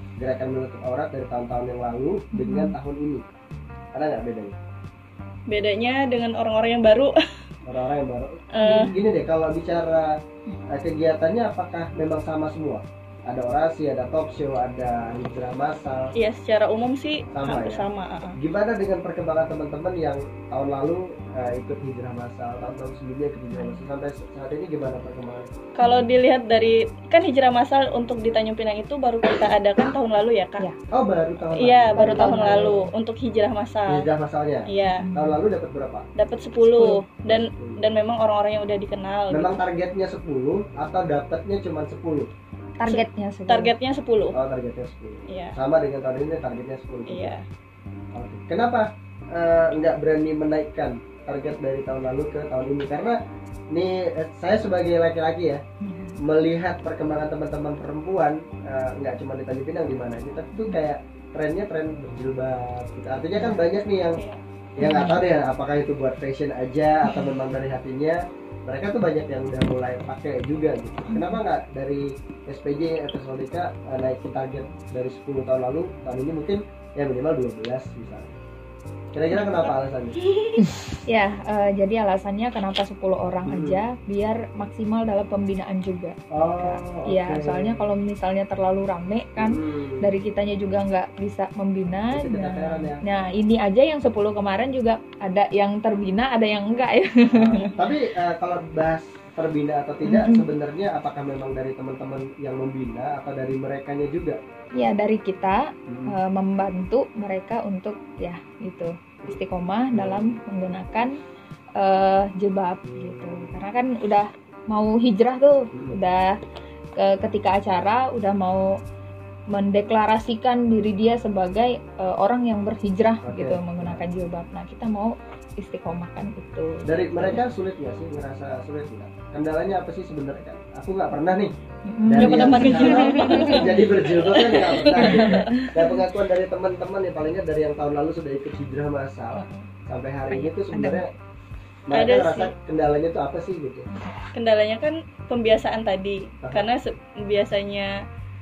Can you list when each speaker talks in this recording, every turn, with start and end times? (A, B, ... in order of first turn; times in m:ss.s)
0:00.2-0:03.2 A
0:02.3-0:02.8 B
0:03.9-0:04.5 A
0:05.5-0:07.2 C
0:07.6-0:10.1 A
0:08.5-0:08.9 C
0:08.6-0:09.0 B
0:10.7-0:16.1 A
0:16.1-0:18.4 C
0:17.3-0:25.5 A
0:23.5-0:23.9 B
0:25.8-0:30.6 C
0:25.8-0:26.1 B
0:30.9-0:32.7 A
0:31.5-0:34.1 C
0:32.0-0:32.9 B
0:33.9-0:36.0 A
0:34.7-0:35.0 C
0:34.9-0:35.4 B
0:36.2-0:39.6 C
0:36.6-0:37.0 B
0:37.2-0:37.8 A
0:39.3-0:42.3 A
0:42.8-0:43.7 B
0:42.8-0:44.4 C
0:44.3-0:47.3 A
0:45.3-0:45.5 C
0:47.1-0:47.4 C
0:48.1-0:53.2 A
0:53.7-0:55.6 A
0:55.8-0:56.2 B
0:56.2-1:04.2 A
1:03.4-1:03.6 B
1:04.1-1:04.4 C
1:04.8-1:18.4 A
1:04.8-1:05.2 B
1:11.1-1:11.4 B
1:19.1-1:20.2 A
1:19.3-1:19.7 B
1:21.1-1:37.6 B
1:23.5-1:23.8 A
1:26.3-1:27.9 A
1:29.4-1:30.1 A
1:32.1-1:33.0 A
1:37.3-1:44.4 A
1:40.0-1:40.5 B
1:44.8-1:51.1 B
1:45.9-1:46.2 A
1:49.9-1:50.4 A
1:51.8-1:56.4 B
1:52.8-1:53.6 A
1:55.7-1:56.0 A
1:57.0-1:58.8 B
1:59.5-2:07.4 B
2:03.2-2:04.0 A
2:06.9-2:11.5 A
2:11.9-2:13.8 B
2:12.0-2:21.1 A
2:12.2-2:15.6 C
2:14.9-2:15.7 B
2:20.3-2:21.2 B
2:21.9-2:23.9 A
2:21.9-2:22.5 C
2:24.3-2:27.9 C
2:26.4-2:26.7 A